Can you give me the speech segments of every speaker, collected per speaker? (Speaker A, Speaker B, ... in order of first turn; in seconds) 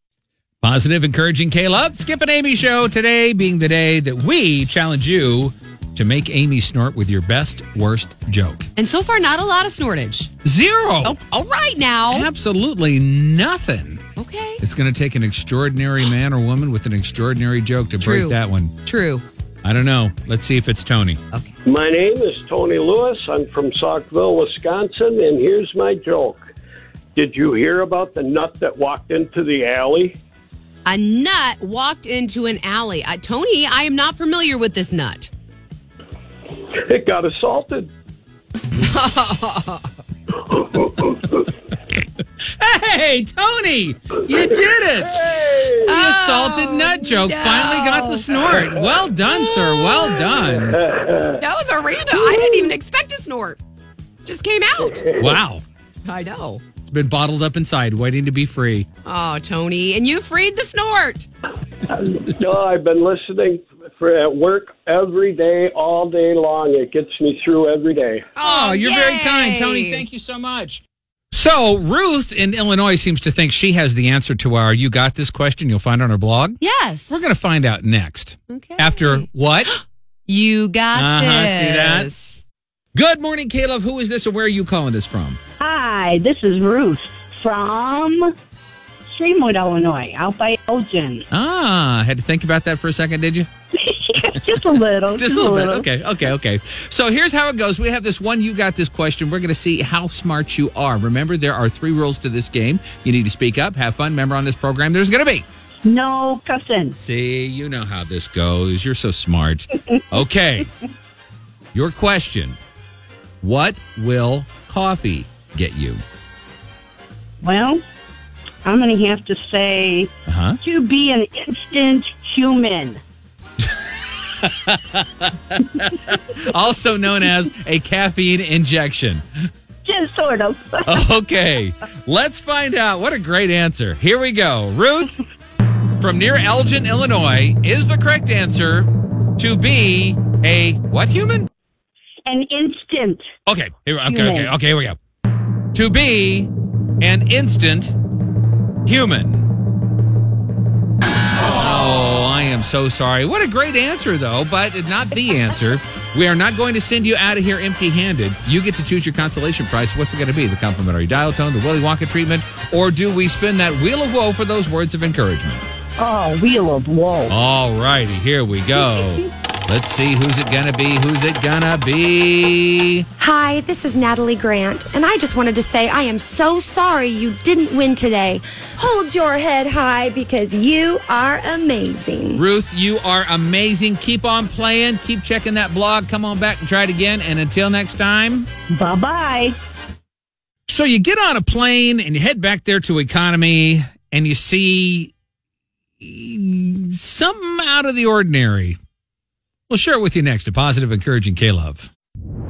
Speaker A: 0.6-8.7, 10.4-11.2, 12.1-14.0, 14.6-18.7, 19.6-21.2, 42.4-50.8, 55.1-55.6, 56.9-58.9, 68.4-79.7, 80.9-82.1, 82.9-85.4, 91.3-93.5, 95.1-105.4, 107.0-110.7, 111.7-112.6, 113.4-116.0, 120.3-120.6, 124.4-129.5, 130.9-135.1, 136.0-141.5, 143.4-145.0, 145.7-147.9, 148.8-149.4, 151.5-165.7, 167.3-173.1, 182.4-188.5, 190.7-195.1, 196.0-198.8, 199.7-201.9
Speaker B: 8.8-10.3, 11.0-12.3, 14.2-14.6, 18.0-19.2, 30.9-35.3, 38.8-39.9, 45.8-48.3, 51.4-53.6, 54.2-55.1, 56.0-56.6, 59.0-61.3, 68.4-70.0, 76.6-77.2, 78.5-82.4
Speaker C: 21.6-26.4, 27.1-30.1, 36.7-37.9, 40.5-41.5, 45.2-45.8, 50.5-51.4, 55.0-55.2, 61.9-68.3
Speaker D: 85.6-88.3, 89.1-91.2, 93.8-95.9, 105.8-107.0, 117.4-117.8, 118.6-123.0, 129.8-131.1, 142.2-143.3, 144.1-144.5, 166.0-167.3, 168.7-169.3, 188.7-189.6
Speaker E: 173.2-182.4